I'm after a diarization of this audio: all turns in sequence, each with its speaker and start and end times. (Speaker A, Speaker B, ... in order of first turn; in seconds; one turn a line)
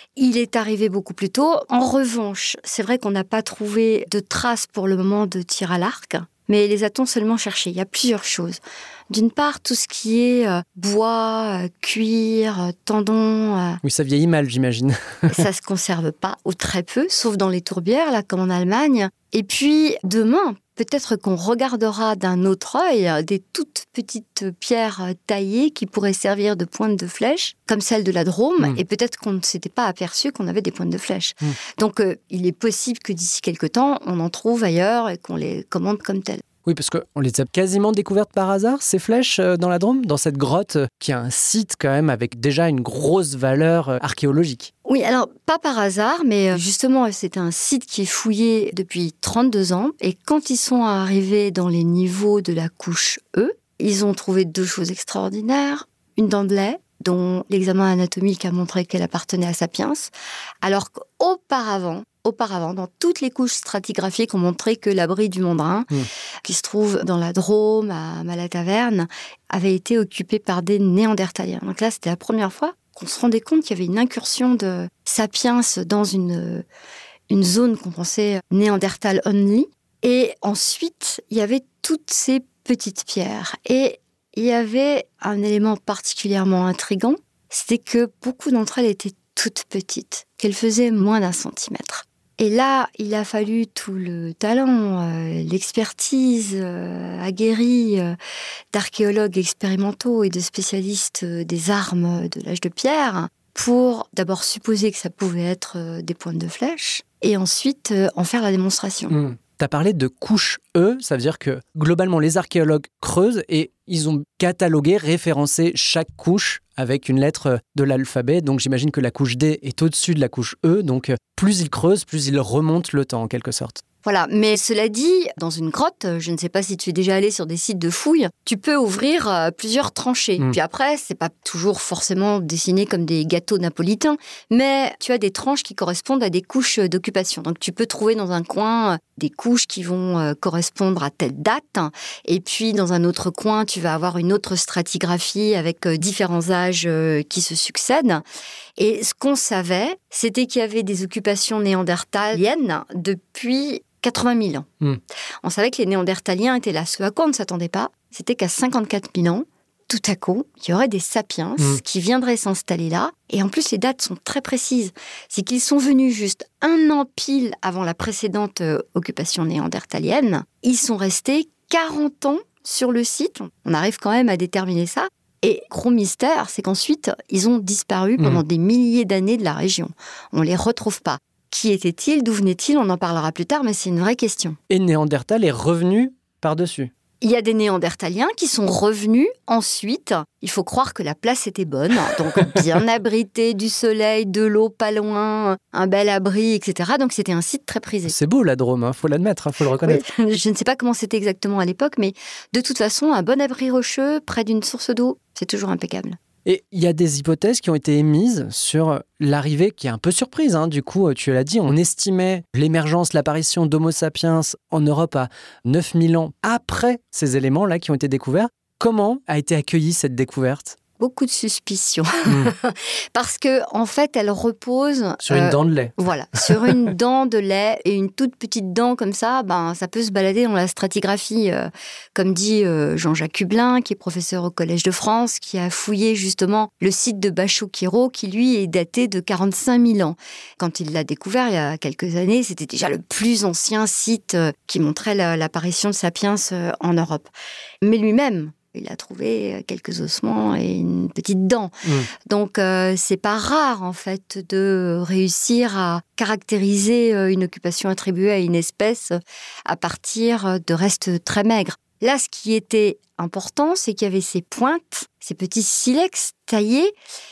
Speaker A: 0.2-13.8
Speaker B: 13.8-15.5
Speaker A: 15.3-36.4
Speaker B: 36.6-44.7
Speaker A: 44.9-60.1
Speaker A: 60.6-65.9
Speaker A: 66.4-76.7
Speaker A: 77.3-98.2
Speaker A: 98.7-109.2
Speaker B: 109.1-123.8
Speaker A: 124.0-148.2
Speaker A: 148.8-154.7
Speaker A: 155.4-184.6
Speaker B: 178.2-178.4
Speaker B: 184.7-186.9
Speaker A: 187.2-198.2
Speaker B: 198.0-200.0
Speaker A: 199.8-206.2
Speaker B: 206.4-220.8
Speaker A: 221.0-266.9
Speaker B: 225.2-226.9
Speaker B: 251.8-252.1